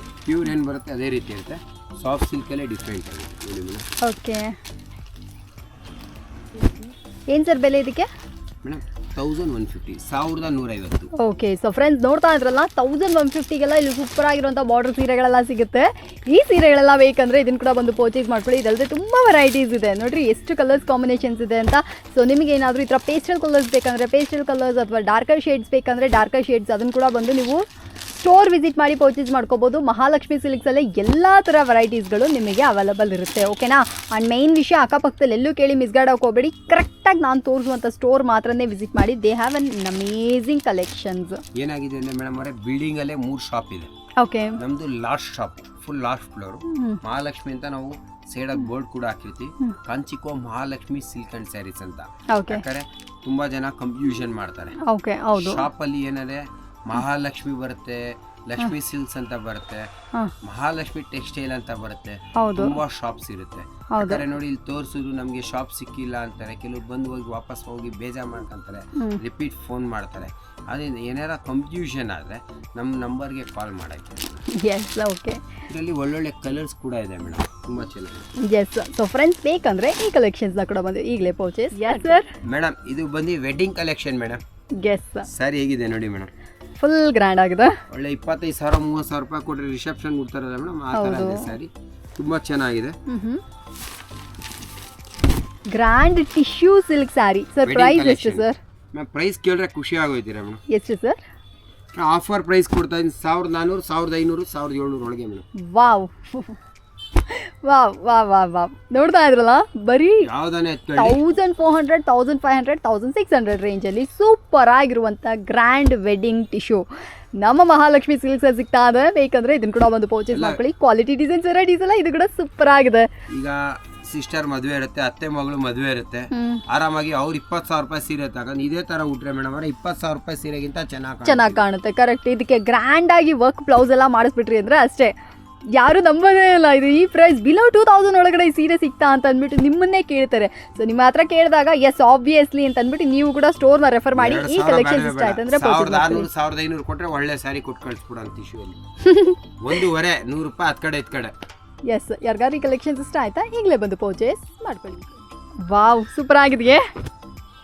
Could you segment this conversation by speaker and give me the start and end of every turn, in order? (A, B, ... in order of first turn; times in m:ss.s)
0:00.2-0:03.8 A
0:04.0-0:04.6 B
0:07.3-0:08.1 B
0:08.6-0:11.1 A
0:11.2-0:27.6 B
0:28.2-0:41.4 B
0:41.6-0:43.9 A
0:44.2-0:44.6 B
0:44.6-0:54.8 A
0:46.7-0:47.0 B
0:52.3-0:52.6 B
0:54.8-0:55.6 B
0:55.4-0:59.9 A
1:00.4-1:14.4 A
1:02.4-1:02.8 B
1:03.9-1:04.2 B
1:09.0-1:09.2 B
1:14.5-1:15.4 B
1:15.7-1:18.3 A
1:18.4-1:22.3 B
1:22.4-1:24.4 A
1:24.8-1:25.3 B
1:25.3-1:26.3 A
1:26.8-1:27.8 B
1:27.9-1:33.0 A
1:30.9-1:31.6 B
1:33.1-1:33.4 B
1:35.7-1:38.6 B
1:37.6-1:40.6 A
1:40.7-1:41.2 B
1:42.0-1:45.4 A
1:45.6-1:46.6 B
1:47.3-1:50.3 B
1:50.2-1:51.2 A
1:51.0-1:56.9 B
1:57.4-2:03.1 B
2:00.3-2:00.6 A
2:03.3-2:11.6 A
2:06.3-2:06.6 B
2:11.2-2:15.1 B
2:15.7-2:26.3 B
2:24.1-2:28.8 A
2:29.0-2:29.4 B
2:29.6-2:31.3 A
2:31.9-2:36.9 B